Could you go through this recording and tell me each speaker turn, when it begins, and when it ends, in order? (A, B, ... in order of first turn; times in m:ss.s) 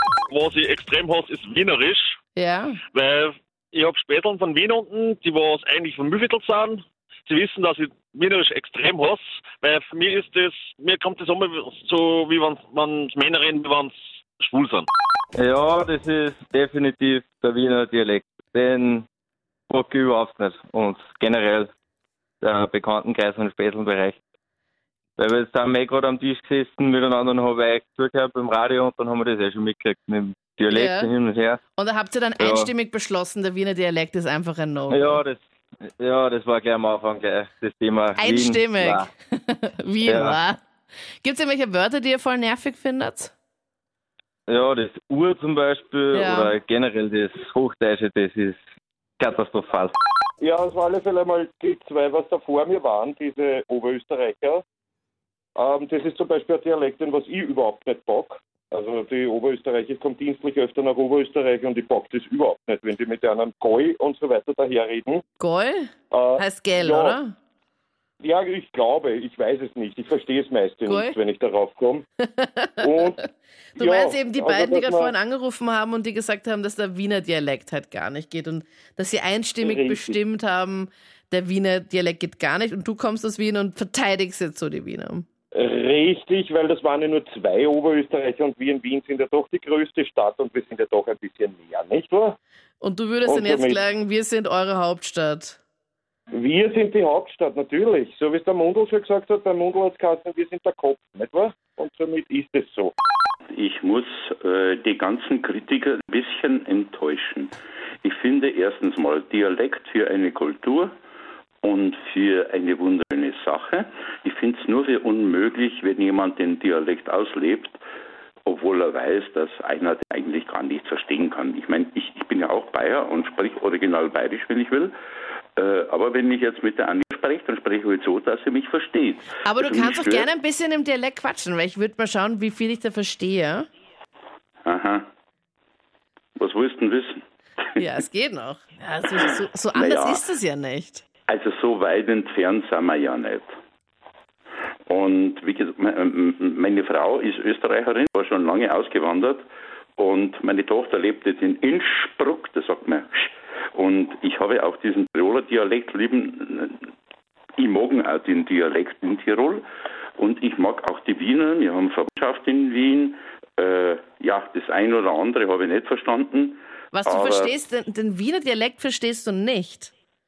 0:00.3-0:02.2 A
0:02.4-0:02.8 B
0:02.9-0:14.9 A
0:15.4-0:19.1 C
0:19.7-0:21.7 C
0:22.4-0:24.2 C
0:25.2-0:31.6 C
0:30.7-0:31.1 B
0:31.8-0:35.2 B
0:32.4-0:32.7 C
0:34.9-0:39.1 C
0:38.2-0:40.6 B
0:40.1-0:40.4 C
0:41.2-0:43.3 B
0:44.5-0:48.6 C
0:46.1-0:46.6 B
0:49.2-0:50.0 C
0:50.4-0:54.6 D
0:55.6-1:05.2 D
1:05.4-1:07.4 B
1:06.1-1:07.2 D
1:08.2-1:12.0 D
1:10.9-1:11.2 B
1:12.2-1:13.2 B
1:12.8-1:13.2 D
1:13.8-1:25.3 B
1:13.8-1:15.2 D
1:19.6-1:20.2 D
1:25.5-1:32.4 D
1:32.8-1:35.6 B
1:33.2-1:33.8 D
1:36.3-1:42.9 D
1:43.5-1:50.9 E
1:51.6-1:57.8 E
1:58.5-2:04.9 E
2:05.6-2:10.3 E
2:09.4-2:13.7 B
2:14.7-2:15.1 E
2:16.4-2:17.2 E
2:17.8-2:21.0 B
2:19.8-2:20.2 E
2:21.3-2:23.5 E
2:24.9-2:29.4 E
2:30.0-2:36.8 E
2:37.6-2:39.6 E
2:40.2-2:47.5 E
2:46.9-2:49.9 B